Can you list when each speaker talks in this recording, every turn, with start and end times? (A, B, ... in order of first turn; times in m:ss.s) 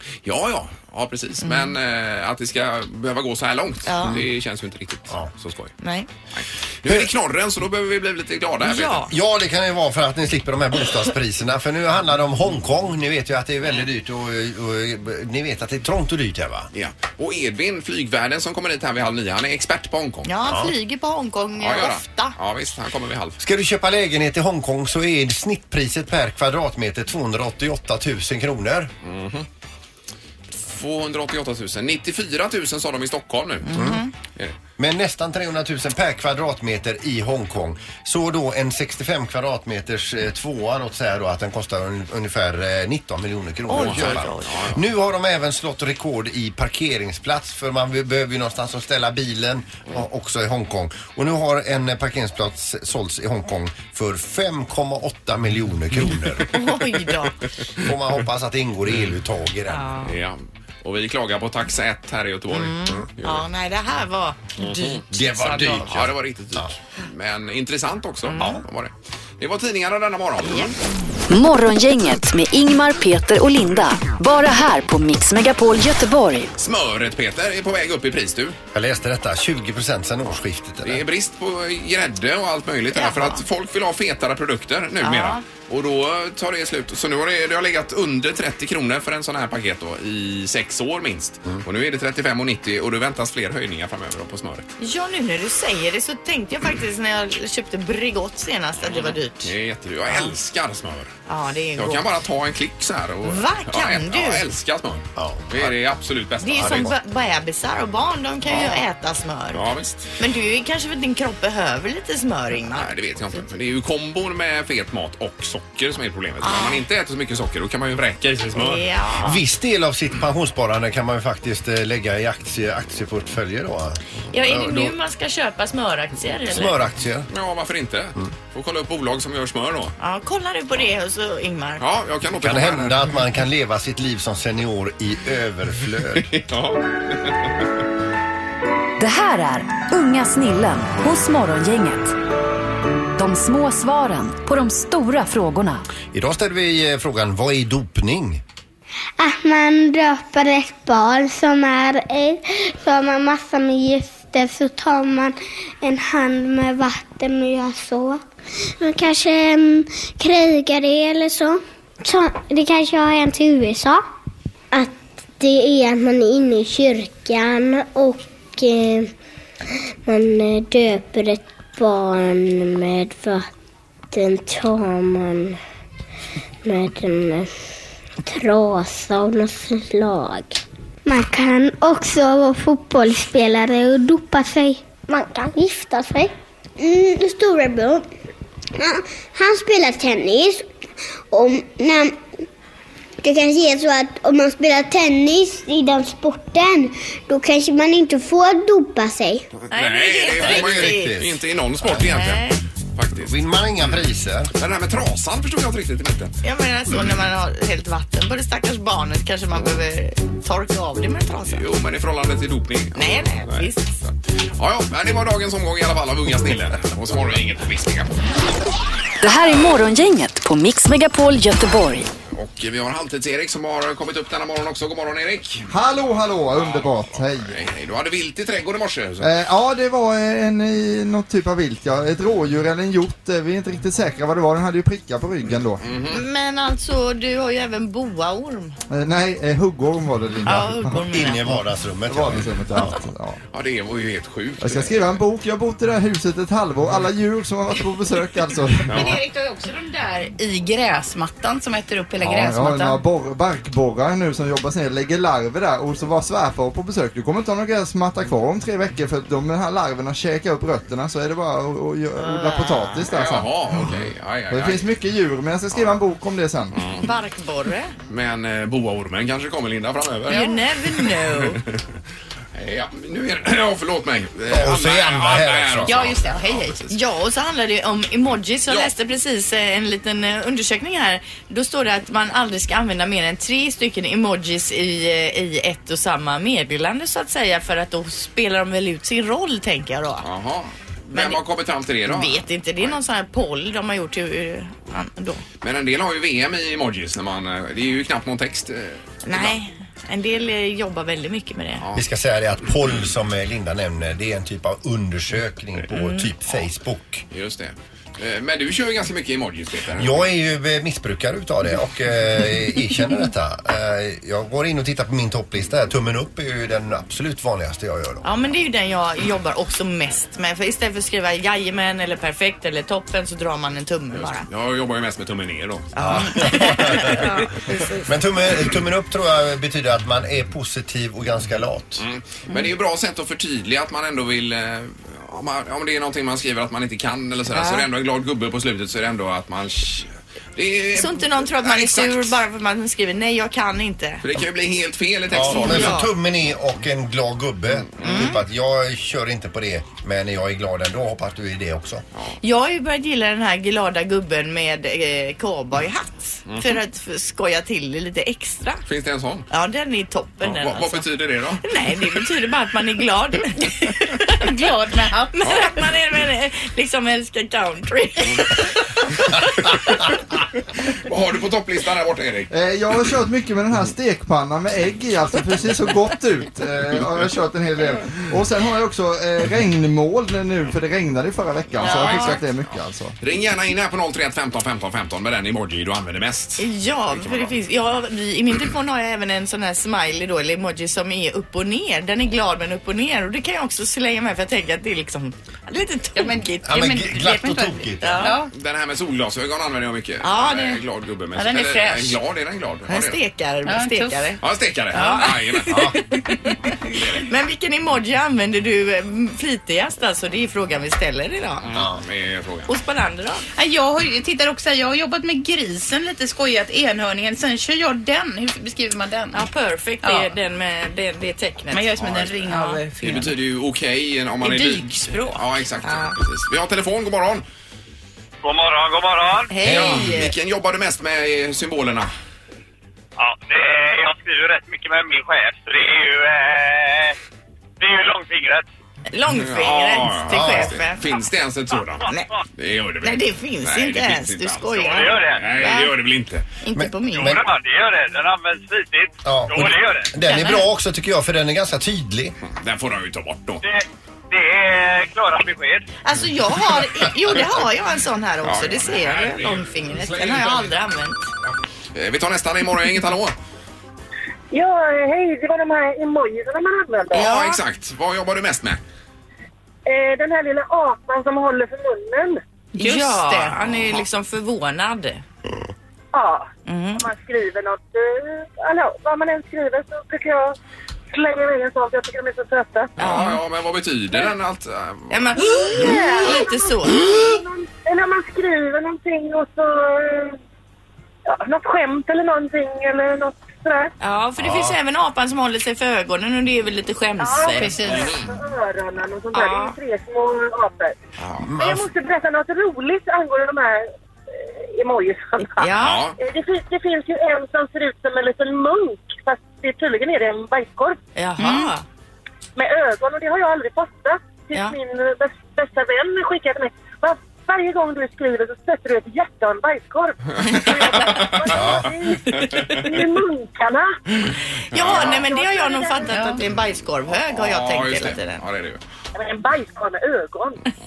0:00.2-0:05.7 A
0:01.4-0:01.8 B
0:03.9-0:04.2 B
0:05.8-0:06.1 B
0:06.3-0:09.1 A
0:08.6-0:09.1 B
0:09.1-0:16.7 C
0:16.7-0:20.3 A
0:20.2-0:22.4 B
0:20.5-0:20.7 C
0:21.6-0:23.4 A
0:23.4-0:28.9 C
0:29.0-0:29.5 A
0:30.6-0:33.8 A
0:33.6-0:34.1 B
0:33.8-0:34.0 C
0:34.8-0:56.5 C
0:43.7-0:44.5 B
0:43.8-0:44.8 A
0:56.5-0:57.4 B
0:57.8-0:59.9 C
0:59.7-1:00.1 B
1:00.0-1:03.5 A
1:02.5-1:05.9 B
1:04.6-1:05.0 A
1:05.1-1:06.7 C
1:05.6-1:10.8 A
1:08.2-1:08.6 B
1:10.4-1:10.7 B
1:11.3-1:16.5 D
1:16.6-1:18.6 A
1:18.7-1:21.0 C
1:20.8-1:34.7 A
1:22.9-1:23.4 B
1:25.0-1:25.4 B
1:34.8-1:39.5 B
1:38.8-1:41.1 A
1:41.3-1:42.0 B
1:41.8-1:46.9 A
1:43.2-1:44.4 B
1:45.2-1:45.8 C
1:46.4-1:49.6 B
1:46.5-1:47.0 C
1:48.5-1:48.8 A
1:49.5-1:50.1 A
1:50.2-1:53.4 B
1:52.7-1:58.8 A
1:56.4-1:56.8 B
1:58.5-1:59.4 B
1:59.2-2:04.9 C
2:04.3-2:06.8 B
2:06.5-2:07.3 C
2:07.3-2:10.0 A
2:10.0-2:11.8 B
2:11.8-2:13.2 A
2:12.4-2:16.4 C
2:16.2-2:17.5 A
2:19.0-2:22.1 D
2:23.2-2:25.8 D
2:26.1-2:28.4 C
2:29.2-2:44.0 E
2:44.7-2:49.1 E
2:50.0-2:53.5 E
2:54.1-2:55.6 E
2:56.6-2:57.5 E
2:58.2-3:08.1 E
3:08.8-3:10.7 E
3:11.3-3:12.2 E
3:13.2-3:19.5 E
3:19.6-3:23.4 A
3:19.7-3:21.2 B
3:20.4-3:21.4 C
3:22.0-3:22.6 B
3:23.1-3:24.5 C
3:24.6-3:26.4 A
3:26.4-3:31.6 B
3:31.5-3:38.1 A
3:33.0-3:34.0 B
3:39.2-3:42.1 D
3:42.3-3:45.7 A
3:45.7-3:47.6 F
3:46.5-3:49.4 A
3:49.2-3:55.8 F
3:55.8-3:56.2 A
3:56.1-3:58.8 B
3:58.9-4:01.0 F
4:00.4-4:01.4 B
4:01.0-4:03.0 C
4:02.1-4:03.4 F
4:03.5-4:05.2 A
4:04.6-4:09.1 F
4:08.9-4:13.0 G
4:08.9-4:09.2 A
4:12.2-4:24.0 F
4:22.2-4:23.1 B
4:23.1-4:24.9 A
4:24.5-4:26.8 F
4:25.7-4:26.0 A
4:26.7-4:27.1 A
4:27.0-4:27.9 B
4:28.1-4:31.8 A
4:30.3-4:31.6 B
4:32.5-4:36.9 A
4:34.5-4:36.1 C
4:35.8-4:36.8 G
4:36.9-4:50.2 B
4:50.2-4:53.0 A
4:51.1-4:51.4 B
4:52.0-4:55.4 B
4:55.6-4:59.6 A
4:59.2-5:01.8 B
5:01.8-5:02.0 A
5:01.9-5:07.2 C
5:05.9-5:06.3 B
5:07.3-5:10.3 A
5:10.0-5:18.2 C
5:18.2-5:24.5 B
5:24.1-5:26.0 A
5:25.9-5:28.0 B
5:26.0-5:27.2 C
5:28.0-5:32.0 C
5:32.0-5:42.4 A
5:37.5-5:37.8 B
5:41.0-5:44.2 B
5:44.2-5:46.0 A
5:45.3-5:52.0 C
5:45.4-5:46.1 B
5:48.0-5:48.4 B
5:52.4-5:58.8 B
5:58.8-5:59.5 A
5:59.5-6:01.1 B
6:00.4-6:01.6 A
6:01.6-6:04.4 B
6:04.4-6:05.4 G
6:05.3-6:10.0 B
6:11.0-6:12.5 A
6:12.5-6:23.1 F
6:21.7-6:27.5 A
6:21.8-6:22.4 B
6:26.6-6:36.9 B
6:36.2-6:38.5 G
6:36.6-6:38.3 C
6:38.0-6:38.4 B
6:38.5-6:43.2 A
6:40.2-6:40.8 B
6:41.4-6:42.1 G
6:42.9-6:44.4 B
6:43.6-6:44.3 G
6:44.4-6:45.9 A
6:44.9-6:51.7 B
6:46.8-6:47.2 A
6:51.6-6:52.7 A
6:51.7-6:52.0 C
6:52.7-6:53.4 B
6:53.5-6:59.5 G
6:59.3-7:02.8 B
7:00.0-7:00.3 G
7:01.7-7:03.3 G
7:02.0-7:02.3 A
7:03.0-7:07.4 A
7:04.4-7:06.2 B
7:08.4-7:09.5 H
7:09.5-7:10.3 B
7:09.6-7:12.1 A
7:13.2-7:17.2 H
7:17.8-7:18.7 H
7:19.1-7:21.0 B
7:19.3-7:26.4 A
7:20.3-7:20.8 C
7:23.0-7:25.9 B
7:24.9-7:25.5 H
7:26.6-7:27.4 B
7:26.8-7:27.4 C
7:27.1-7:30.1 H
7:29.2-7:32.4 C
7:30.3-7:30.6 B
7:32.4-7:33.6 A
7:33.6-7:35.9 H
7:36.0-7:41.2 B
7:38.4-7:40.8 A
7:41.9-7:43.4 A
7:44.5-7:47.3 I
7:47.1-7:48.8 A
7:47.1-7:47.6 B
7:49.8-7:52.4 I
7:52.8-7:53.6 G
7:52.8-7:55.2 B
7:56.1-8:00.6 I
7:56.7-7:57.1 B
8:01.1-8:03.0 I
8:03.0-8:05.4 A
8:03.0-8:03.4 B
8:05.1-8:07.0 B
8:05.4-8:10.4 I
8:11.3-8:13.9 I
8:14.0-8:18.0 B
8:17.2-8:21.0 I
8:17.5-8:18.1 G
8:17.9-8:18.3 A
8:19.3-8:19.8 B
8:21.2-8:21.5 A
8:21.4-8:21.9 C
8:21.6-8:31.0 I
8:25.6-8:26.0 B
8:25.8-8:26.2 A
8:31.2-8:31.8 B
8:31.4-8:31.7 G
8:32.6-8:44.0 I
8:41.0-8:41.7 A
8:41.5-8:41.9 C
8:42.5-8:42.8 A
8:44.7-8:48.4 B
8:44.7-8:45.2 A
8:44.9-8:46.2 I
8:46.1-8:46.4 G
8:47.2-8:48.8 A
8:49.1-8:50.7 I